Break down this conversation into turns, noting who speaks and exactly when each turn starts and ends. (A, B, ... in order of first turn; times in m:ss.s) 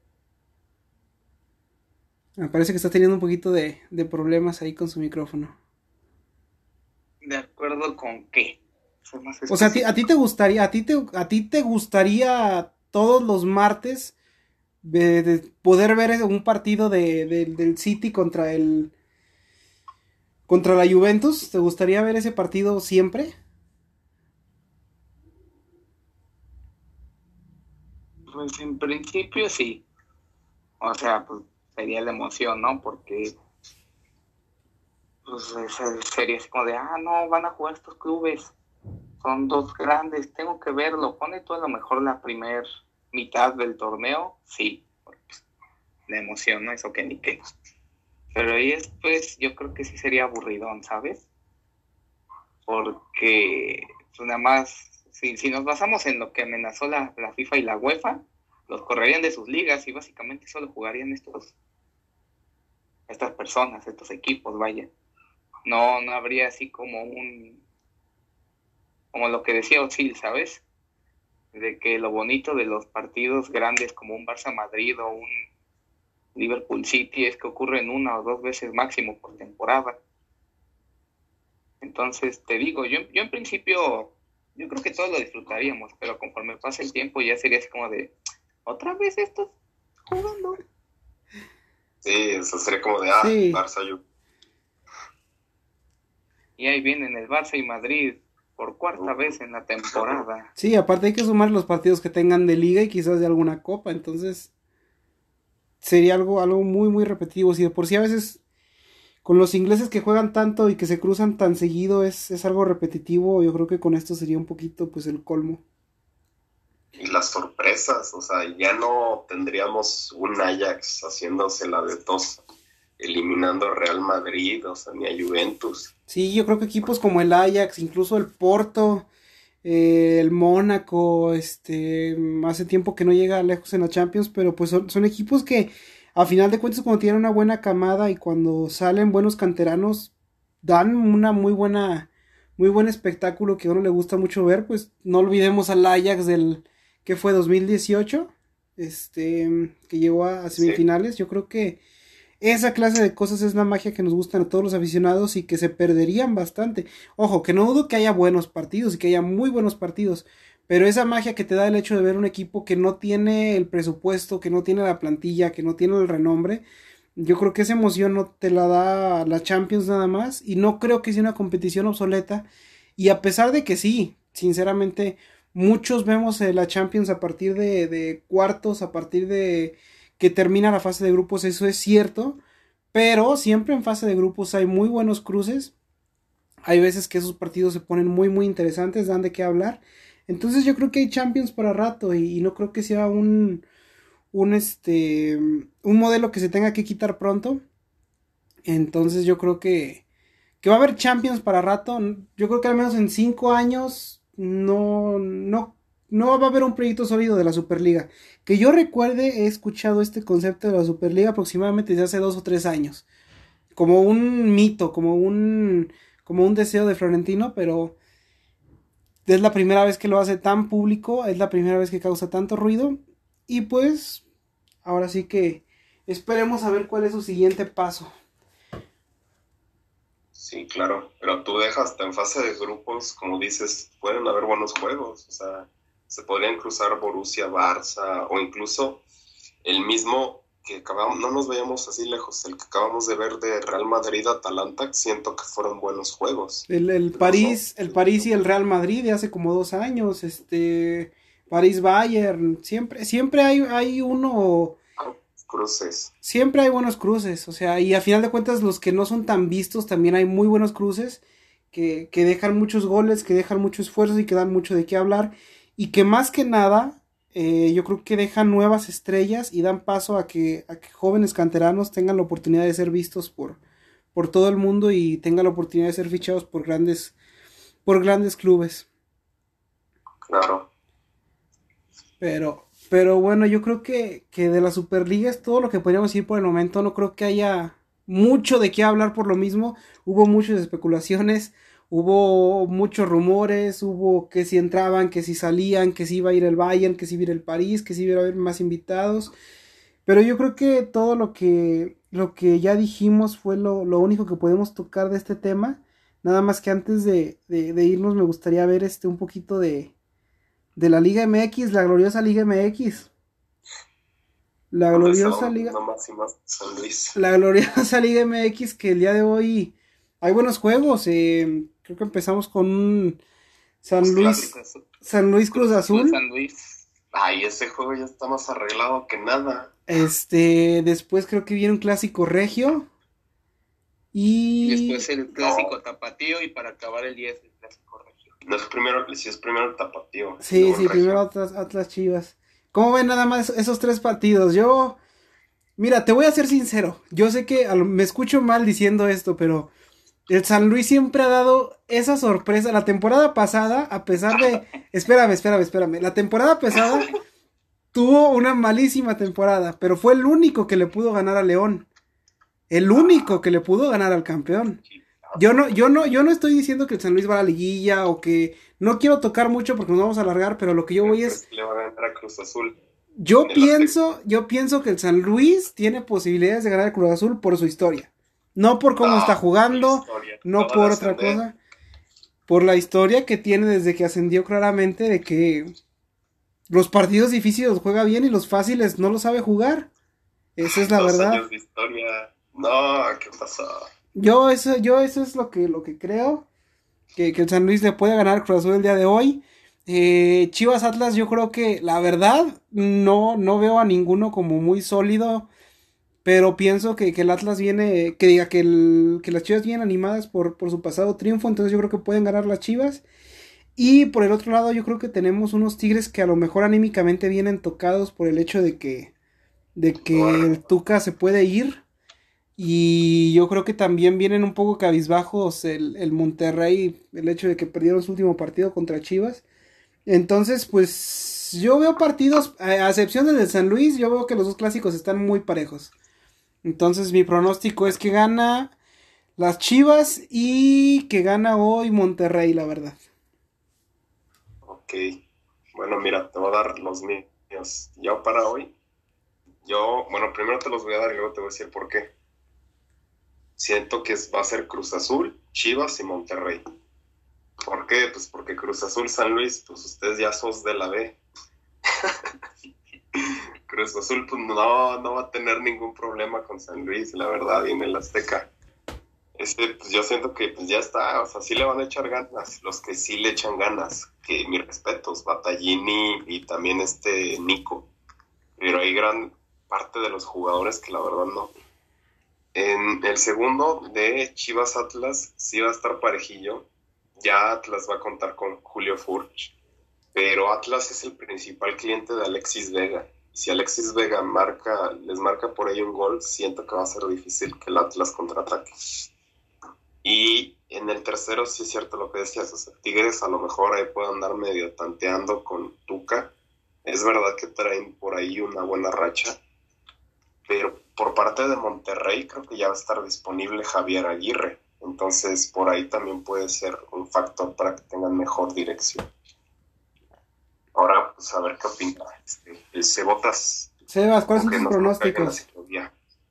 0:02.4-0:05.6 A
0:07.2-0:10.0 B
0:09.5-0:14.2 A
0:14.8-0:18.9 A
0:20.5-0:23.3 A
0:28.3-0:29.8 B
0:30.8-0:33.3 B
0:35.3-0:38.5 B
0:39.2-0:45.4 B
0:46.1-0:47.4 B
0:48.4-0:51.2 B
0:52.7-1:01.5 B
1:03.1-1:04.9 B
1:05.6-1:07.6 B
1:09.1-1:10.6 B
1:11.5-1:15.3 B
1:16.4-1:20.0 B
1:21.8-1:28.1 B
1:28.7-1:29.5 B
1:30.1-1:30.5 A
1:32.0-1:34.0 C
1:33.2-1:33.6 A
1:36.6-1:40.5 B
1:39.0-1:39.4 C
1:39.9-1:40.2 C
1:40.6-1:44.5 A
1:45.8-1:48.4 A
1:49.2-1:55.6 A
1:57.0-2:02.4 C
2:03.0-2:05.9 C
2:06.1-2:09.1 A
2:09.6-2:20.1 A
2:20.6-2:31.8 A
2:30.6-2:30.8 C
2:32.4-2:46.6 A
2:47.2-3:02.4 A
3:02.9-3:05.7 A
3:06.7-3:13.6 A
3:14.3-3:17.6 A
3:18.7-3:20.0 A
3:20.6-3:33.0 A
3:33.7-3:38.0 A
3:39.3-3:44.2 A
3:44.8-3:48.1 A
3:50.4-3:59.0 C
3:59.6-4:08.4 C
4:06.7-4:14.8 A
4:15.0-4:16.1 C
4:16.2-4:21.2 A
4:21.7-4:33.6 A
4:34.1-4:37.1 A
4:37.8-4:38.9 A
4:40.3-4:40.7 C
4:42.2-4:59.3 A
5:00.1-5:09.9 A
5:10.8-5:13.1 A
5:14.7-5:15.8 A
5:14.9-5:17.2 C
5:17.2-5:23.2 A
5:23.8-5:24.5 A
5:24.0-5:24.5 C
5:24.2-5:24.8 B
5:25.0-5:26.2 A
5:25.5-5:26.9 B
5:27.1-5:29.7 C
5:29.9-5:32.9 A
5:34.1-5:35.1 A
5:34.6-5:38.3 B
5:35.3-5:35.8 C
5:38.4-5:41.2 C
5:40.4-5:45.0 A
5:45.8-5:49.7 A
5:50.3-5:57.1 A
5:57.9-6:01.9 A
6:02.7-6:04.8 A
6:04.9-6:05.5 C
6:05.4-6:11.4 A
6:11.0-6:12.8 C
6:13.2-6:21.6 A
6:13.4-6:13.9 C
6:19.0-6:21.4 C
6:22.5-6:25.7 A
6:26.7-6:29.9 A
6:30.6-6:31.4 A
6:30.7-6:33.9 C
6:34.2-6:36.5 A
6:37.2-6:45.5 A
6:46.2-6:53.0 A
6:53.8-6:59.1 A
6:59.8-7:01.8 A
7:00.0-7:00.6 C
7:02.6-7:09.4 A
7:10.1-7:15.9 A
7:16.6-7:18.8 A
7:19.4-7:23.0 A
7:24.6-7:25.2 C
7:25.7-7:28.7 C
7:29.6-7:32.1 C
7:33.6-7:36.6 C
7:37.6-7:41.2 C
7:43.2-7:48.5 C
7:49.4-7:57.9 C
7:58.6-8:01.5 C
8:02.5-8:06.7 C
8:07.2-8:09.5 C
8:10.1-8:18.7 C
8:20.0-8:26.3 C
8:26.8-8:29.4 C
8:30.5-8:39.1 C
8:40.7-8:43.7 C
8:43.9-8:45.4 A
8:44.4-8:45.9 C